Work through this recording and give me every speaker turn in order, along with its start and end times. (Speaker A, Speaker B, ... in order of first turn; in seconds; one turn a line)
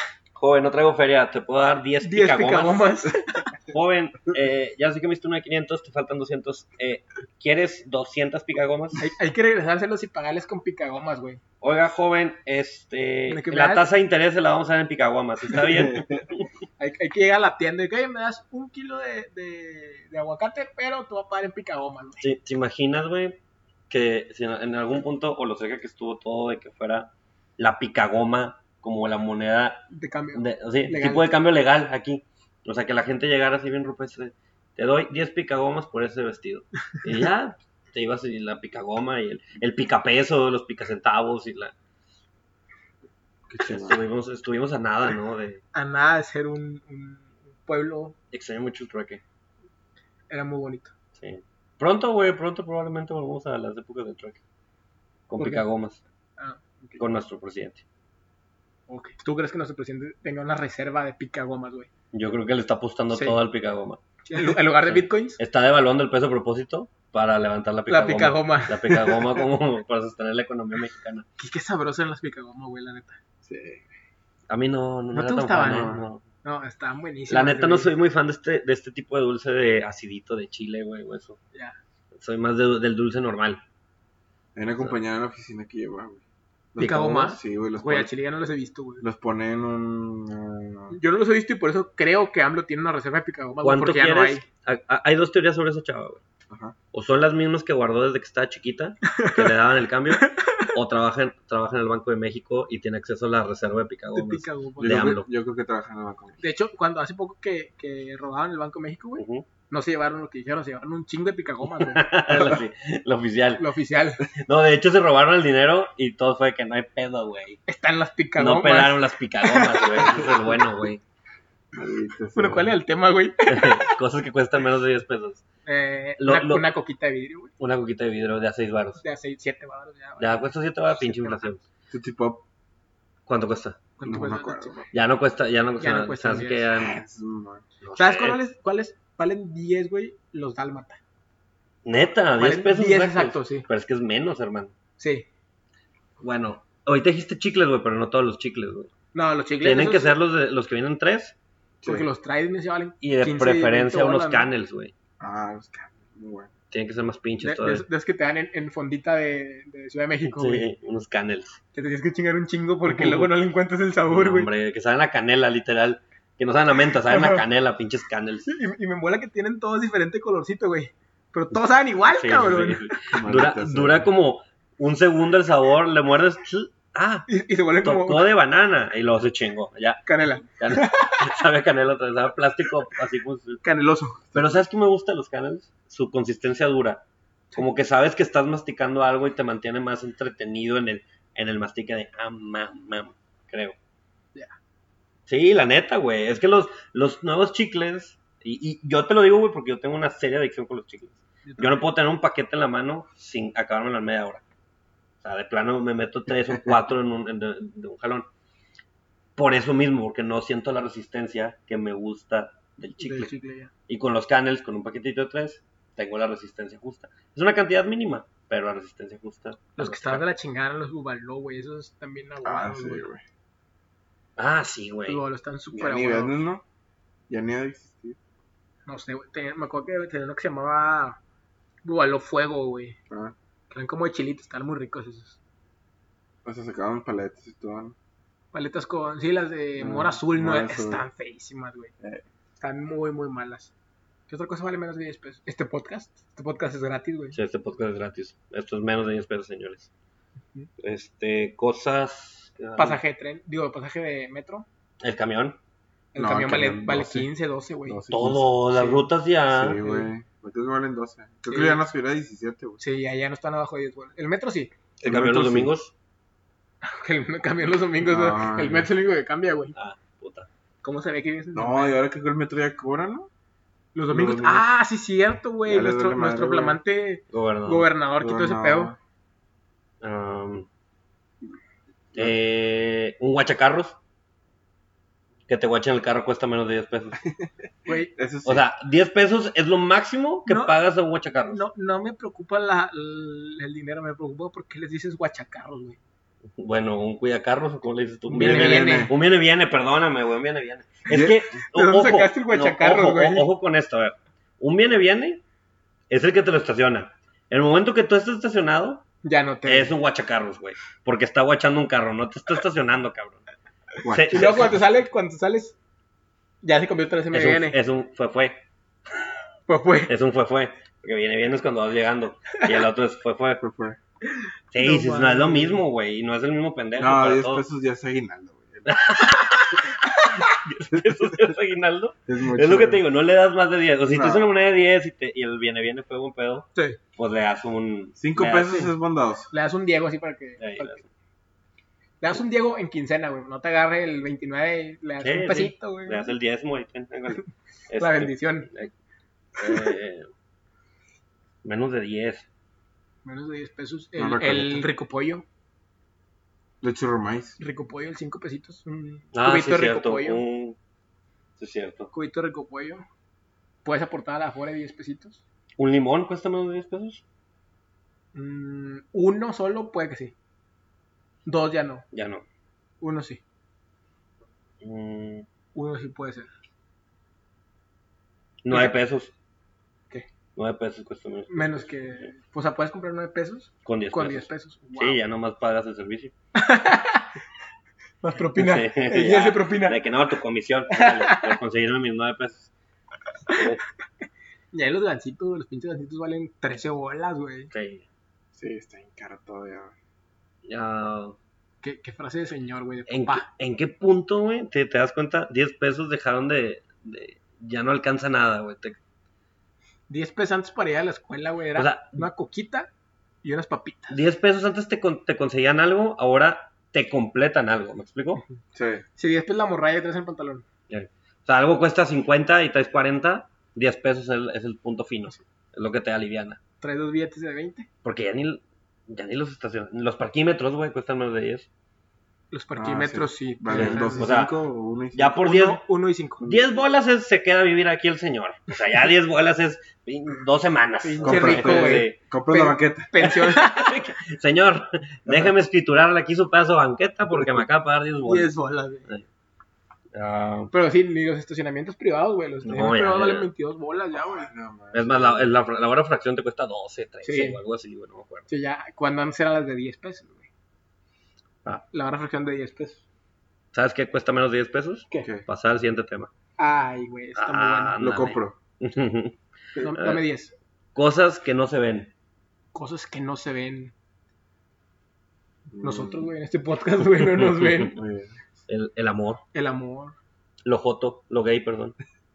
Speaker A: 0.3-2.9
Speaker B: 2.0-3.5
Speaker A: 3.7-9.0
Speaker B: 9.0-11.4
Speaker A: 11.6-16.5
Speaker B: 13.3-13.9
Speaker C: 15.6-16.2
Speaker B: 16.8-22.2
Speaker A: 22.2-23.4
Speaker A: 23.9-29.8
Speaker B: 29.9-31.2
Speaker A: 30.3-41.7
Speaker C: 43.5-44.0
Speaker A: 43.6-45.6
Speaker B: 45.7-48.1
Speaker A: 48.3-49.2
Speaker B: 50.3-50.9
Speaker A: 51.2-54.4
Speaker A: 55.3-56.0
Speaker B: 55.4-55.7
Speaker B: 56.4-57.0
Speaker A: 57.0-57.8
Speaker B: 58.9-61.9
Speaker A: 62.1-64.0
Speaker B: 64.2-65.4
Speaker A: 64.8-71.3
Speaker B: 67.9-69.4
Speaker B: 71.4-73.2
Speaker C: 73.4-73.8
Speaker A: 74.5-76.2
Speaker B: 75.1-77.9
Speaker C: 75.7-76.0
Speaker A: 77.3-81.4
Speaker A: 82.1-83.6
Speaker C: 84.6-86.2
Speaker A: 84.7-85.0
Speaker C: 86.7-88.1
Speaker B: 86.8-89.1
Speaker C: 89.0-91.0
Speaker B: 90.9-94.5
Speaker A: 93.6-96.2
Speaker C: 96.5-96.8
Speaker A: 96.9-105.3
Speaker B: 99.1-99.5
Speaker B: 100.1-100.7
Speaker B: 104.2-105.2
Speaker C: 104.8-106.4
Speaker B: 106.4-112.2
Speaker A: 109.2-109.5
Speaker A: 111.8-113.7
Speaker B: 113.6-114.2
Speaker A: 114.4-117.6
Speaker B: 117.7-120.3
Speaker A: 118.4-121.0
Speaker C: 121.7-122.7
Speaker B: 122.3-123.9
Speaker A: 123.5-125.4
Speaker B: 125.7-127.5
Speaker A: 126.2-126.7
Speaker A: 127.6-129.0
Speaker B: 129.0-131.5
Speaker A: 130.2-131.6
Speaker C: 131.9-132.4
Speaker A: 133.3-133.8
Speaker B: 134.0-134.9
Speaker C: 134.1-134.8
Speaker A: 134.9-137.0
Speaker B: 135.8-136.7
Speaker C: 136.7-137.6
Speaker A: 137.8-138.4
Speaker B: 138.0-141.0
Speaker A: 141.8-144.7
Speaker B: 142.4-143.7
Speaker B: 145.0-145.3
Speaker A: 146.2-148.9
Speaker B: 149.1-150.2
Speaker A: 149.6-151.3
Speaker B: 151.8-154.5
Speaker A: 153.0-154.9
Speaker C: 155.2-156.5
Speaker A: 156.7-157.8
Speaker B: 157.4-160.7
Speaker A: 160.2-161.6
Speaker B: 161.7-164.5
Speaker A: 162.9-163.3
Speaker A: 164.1-168.5
Speaker B: 167.1-167.4
Speaker B: 168.5-173.1
Speaker A: 172.1-177.3
Speaker C: 173.1-174.1
Speaker B: 177.3-178.3
Speaker A: 177.8-180.0
Speaker B: 180.1-181.4
Speaker A: 180.6-183.6
Speaker B: 183.6-184.4
Speaker A: 184.3-187.0
Speaker A: 187.6-193.8
Speaker A: 195.3-204.4
Speaker B: 201.4-201.9
Speaker A: 205.2-208.3
Speaker A: 209.4-213.3
Speaker B: 213.0-213.7
Speaker A: 213.9-220.2
Speaker B: 219.8-223.0
Speaker C: 222.4-223.2
Speaker A: 224.4-225.2
Speaker B: 225.1-226.4
Speaker C: 225.7-226.6
Speaker C: 227.3-228.2
Speaker B: 228.9-231.2
Speaker B: 231.8-233.0
Speaker B: 233.7-235.4
Speaker C: 236.4-237.9
Speaker B: 238.5-241.9
Speaker C: 239.8-241.1
Speaker B: 242.6-243.7
Speaker B: 244.3-247.4
Speaker A: 247.3-249.9
Speaker A: 250.8-253.0
Speaker B: 252.8-254.7
Speaker A: 255.0-255.6
Speaker B: 256.1-258.0
Speaker C: 256.2-257.3
Speaker C: 257.9-258.5
Speaker A: 258.1-259.8
Speaker B: 258.8-259.1
Speaker C: 259.5-262.8
Speaker B: 259.8-260.1
Speaker B: 261.5-261.8
Speaker B: 262.8-264.7
Speaker C: 265.0-265.7
Speaker A: 265.0-265.9
Speaker B: 266.8-269.8
Speaker C: 268.0-268.9
Speaker A: 269.7-270.5
Speaker B: 270.8-272.0
Speaker C: 271.5-273.3
Speaker B: 273.9-278.9
Speaker C: 274.1-274.7
Speaker C: 275.7-276.8
Speaker A: 277.3-277.9
Speaker C: 278.2-279.0
Speaker A: 280.0-280.7
Speaker A: 282.1-284.0
Speaker A: 285.5-287.2
Speaker B: 287.9-288.1
Speaker C: 288.1-288.6
Speaker A: 288.4-291.6
Speaker B: 290.5-290.8
Speaker B: 291.5-296.0
Speaker A: 296.6-305.4
Speaker C: 298.3-299.1
Speaker B: 298.3-299.1
Speaker C: 301.1-301.4
Speaker B: 301.6-303.5
Speaker A: 306.1-309.0
Speaker B: 309.2-309.9
Speaker A: 309.6-313.4
Speaker C: 314.0-314.8
Speaker A: 314.1-314.8
Speaker B: 314.3-315.8
Speaker B: 316.6-317.8
Speaker A: 317.3-318.6
Speaker B: 319.7-320.1
Speaker A: 320.1-323.6
Speaker C: 323.6-324.0
Speaker B: 324.3-325.8
Speaker A: 324.7-327.6
Speaker C: 327.0-328.9
Speaker A: 328.9-338.8
Speaker C: 332.3-333.0
Speaker C: 334.1-334.5
Speaker C: 338.2-339.5
Speaker B: 338.4-338.9
Speaker B: 339.5-341.0
Speaker A: 340.6-341.1
Speaker B: 342.2-346.3
Speaker A: 345.2-348.9
Speaker B: 348.0-348.7
Speaker A: 349.6-350.3
Speaker A: 351.6-352.4
Speaker B: 353.2-355.4
Speaker C: 354.2-354.9
Speaker C: 356.8-357.6
Speaker B: 357.6-360.4
Speaker A: 359.3-360.8
Speaker A: 361.6-362.1
Speaker B: 362.1-363.0
Speaker B: 363.9-365.4
Speaker A: 365.8-367.2
Speaker B: 368.3-370.3
Speaker B: 371.5-372.1
Speaker A: 372.1-372.4
Speaker B: 373.0-373.4
Speaker A: 374.8-375.5
Speaker B: 375.8-376.5
Speaker A: 378.6-379.3
Speaker B: 378.7-378.9
Speaker A: 380.6-382.3
Speaker B: 381.5-385.2
Speaker A: 383.9-386.3
Speaker B: 386.6-387.3
Speaker B: 388.2-390.0
Speaker A: 388.6-392.7
Speaker B: 390.9-391.6
Speaker A: 393.5-393.8
Speaker B: 394.7-397.7
Speaker A: 397.7-398.1
Speaker C: 398.6-399.9
Speaker A: 400.6-401.4
Speaker B: 401.8-403.5
Speaker A: 403.1-409.0
Speaker B: 410.1-412.9
Speaker A: 411.8-412.3
Speaker B: 413.4-414.2
Speaker A: 414.1-418.4
Speaker C: 418.7-419.1
Speaker B: 419.2-420.6
Speaker A: 420.9-426.6
Speaker B: 426.8-427.9
Speaker A: 428.0-431.7
Speaker B: 432.5-434.3
Speaker C: 432.8-435.4
Speaker A: 433.7-434.5
Speaker A: 435.1-435.8
Speaker B: 435.4-436.6
Speaker A: 436.4-442.2
Speaker B: 441.0-444.0
Speaker C: 441.2-443.1
Speaker A: 443.2-448.5
Speaker B: 448.3-449.1
Speaker A: 450.1-450.7
Speaker B: 450.7-454.5
Speaker A: 452.6-453.5
Speaker C: 454.1-455.5
Speaker A: 454.9-458.5
Speaker B: 457.2-457.6
Speaker B: 458.5-460.5
Speaker B: 461.9-463.0
Speaker A: 463.7-466.3
Speaker B: 466.6-468.2
Speaker A: 467.4-470.2
Speaker C: 468.0-468.6
Speaker B: 469.8-470.6
Speaker A: 470.9-472.1
Speaker B: 472.7-473.9
Speaker C: 475.7-476.3
Speaker B: 475.8-478.0
Speaker A: 477.2-477.9
Speaker C: 477.9-478.4
Speaker A: 478.7-479.4
Speaker B: 479.5-480.1
Speaker A: 480.6-482.0